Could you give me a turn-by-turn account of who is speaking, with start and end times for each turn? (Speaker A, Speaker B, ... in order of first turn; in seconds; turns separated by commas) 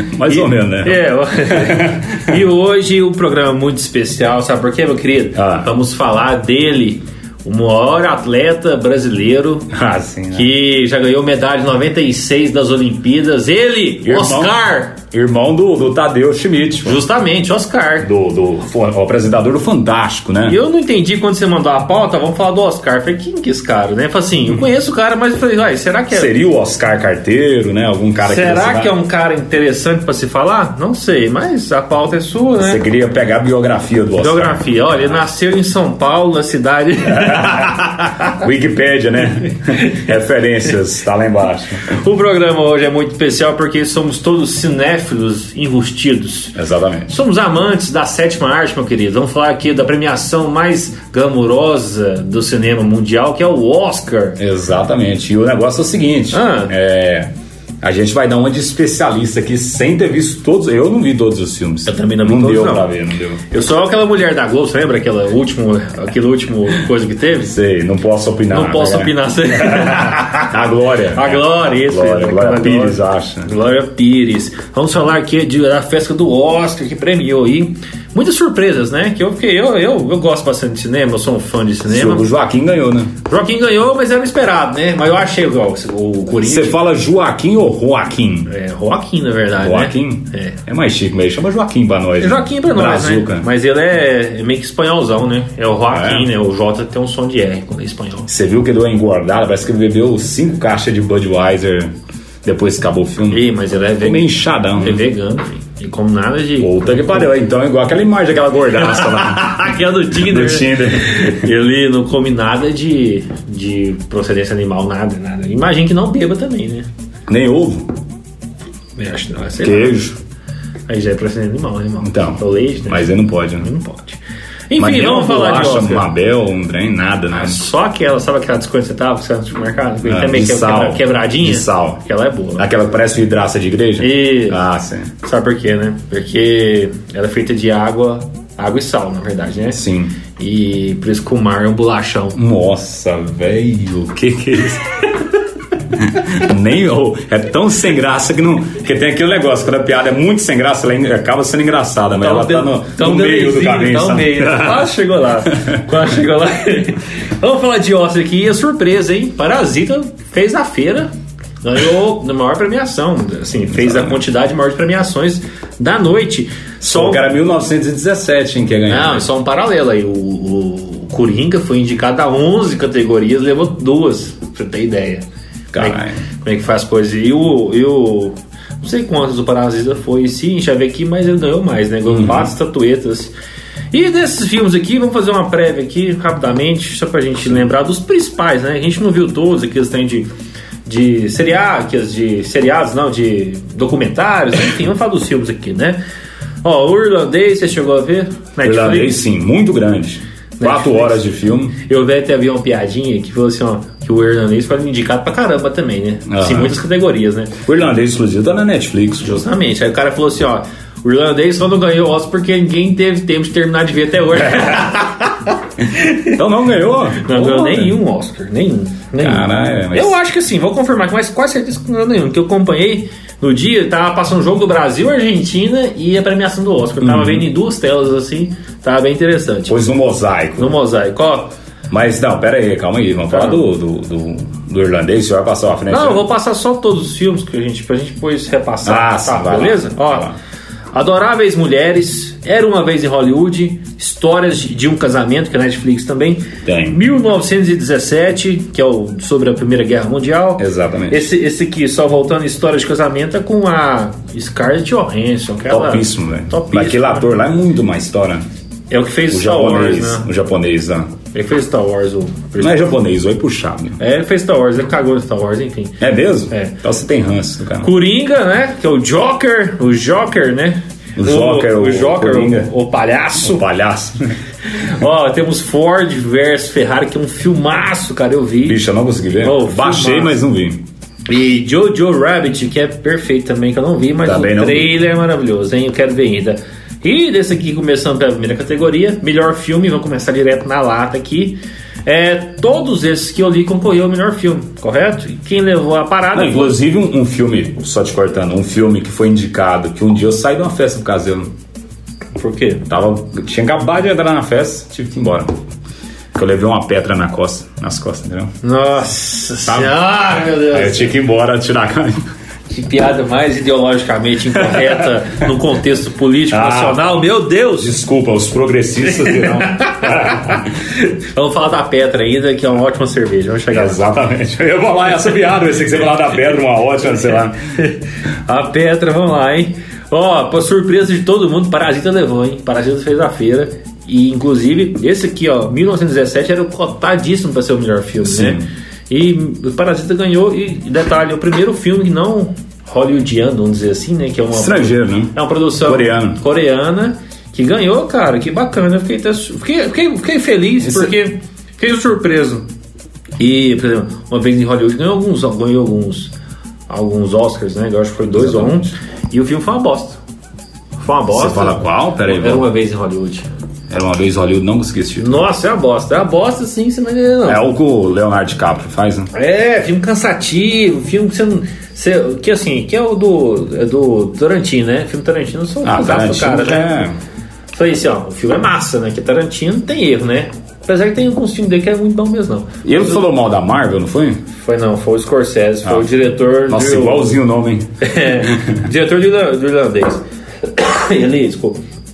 Speaker A: 0.1-2.4, Speaker B: 0.2-9.7, Speaker A: 5.3-5.7, Speaker A: 9.7-10.5, Speaker B: 10.3-15.0, Speaker A: 14.0-14.6, Speaker A: 15.1-17.0, Speaker B: 16.8-18.1, Speaker A: 18.0-20.6, Speaker B: 20.4-26.3, Speaker A: 26.1-28.9, Speaker B: 28.2-32.8, Speaker A: 32.6-34.6, Speaker B: 34.2-37.8, Speaker A: 37.2-41.9, Speaker B: 41.8-46.5, Speaker A: 46.5-47.1, Speaker B: 47.1-54.4, Speaker A: 54.4-57.3, Speaker B: 56.3-56.7, Speaker A: 57.8-63.4, Speaker B: 61.9-62.9, Speaker B: 63.5-67.5, Speaker A: 67.4-73.5, Speaker B: 68.5-70.5, Speaker B: 71.1-82.3, Speaker A: 81.9-83.1, Speaker B: 83.2-86.8, Speaker A: 86.4-88.5, Speaker B: 88.5-90.6, Speaker A: 89.6-93.5, Speaker B: 92.2-98.3, Speaker A: 95.9-96.3, Speaker A: 98.3-101.9, Speaker A: 102.4-103.4, Speaker B: 103.3-107.3, Speaker A: 104.0-105.0, Speaker A: 106.6-111.5, Speaker B: 108.8-116.9, Speaker A: 117.3-117.9, Speaker B: 119.0-120.0, Speaker A: 119.6-120.2, Speaker B: 120.9-124.2, Speaker A: 122.0-123.7, Speaker B: 124.7-126.1, Speaker A: 124.8-127.6, Speaker B: 127.3-132.7, Speaker A: 130.0-132.0, Speaker A: 132.6-135.1, Speaker B: 134.0-134.6, Speaker B: 135.2-139.8, Speaker A: 139.7-140.2, Speaker B: 140.3-142.4, Speaker A: 142.3-145.0, Speaker A: 145.9-154.9, Speaker B: 152.2-161.1, Speaker A: 155.5-155.8, Speaker B: 161.6-167.3, Speaker A: 163.7-164.2, Speaker A: 166.8-169.2, Speaker B: 168.9-175.2, Speaker A: 175.7-176.2, Speaker B: 175.8-183.3, Speaker A: 182.1-182.5, Speaker B: 183.9-190.3, Speaker B: 190.8-196.0, Speaker B: 196.6-199.2, Speaker A: 198.6-201.8, Speaker B: 200.6-201.2, Speaker B: 201.8-207.6, Speaker A: 206.3-206.7, Speaker A: 207.6-209.4, Speaker B: 209.2-216.4, Speaker A: 216.3-218.0, Speaker B: 217.1-229.8, Speaker A: 219.2-220.2, Speaker A: 227.0-227.4, Speaker A: 229.7-230.7, Speaker B: 230.6-231.5, Speaker A: 231.9-236.2, Speaker B: 233.3-233.6, Speaker B: 235.9-240.3, Speaker A: 238.8-240.3, Speaker B: 240.9-257.3, Speaker A: 246.6-247.0, Speaker A: 250.6-251.3, Speaker A: 255.7-258.4, Speaker B: 258.9-260.3, Speaker A: 259.3-261.1, Speaker B: 261.3-262.9, Speaker A: 262.6-264.0, Speaker B: 264.0-266.0, Speaker A: 266.0-267.9, Speaker B: 267.8-273.6, Speaker A: 271.2-272.7, Speaker A: 273.4-274.3, Speaker B: 274.7-278.8, Speaker A: 278.6-280.8, Speaker B: 279.4-280.4, Speaker B: 281.3-296.8, Speaker A: 284.2-284.9, Speaker A: 296.3-301.5, Speaker B: 302.4-302.9, Speaker A: 302.9-305.5, Speaker A: 306.3-308.5, Speaker B: 308.6-311.1, Speaker A: 309.6-310.0, Speaker A: 310.7-312.2, Speaker B: 312.7-317.9, Speaker A: 316.5-317.0, Speaker A: 317.8-320.6, Speaker B: 319.1-324.0, Speaker A: 323.7-327.6, Speaker B: 327.8-352.6, Speaker A: 338.2-338.7, Speaker A: 344.5-346.4, Speaker A: 350.8-351.1, Speaker B: 353.4-356.3, Speaker B: 356.9-360.2, Speaker A: 358.4-358.9, Speaker B: 361.0-363.5, Speaker A: 361.3-362.7, Speaker A: 363.9-365.4, Speaker B: 365.1-367.6, Speaker A: 367.4-369.3, Speaker B: 369.3-377.0, Speaker A: 375.8-377.2, Speaker B: 377.7-383.2, Speaker A: 382.8-384.4, Speaker B: 384.5-387.4, Speaker A: 386.7-388.8, Speaker B: 388.0-391.8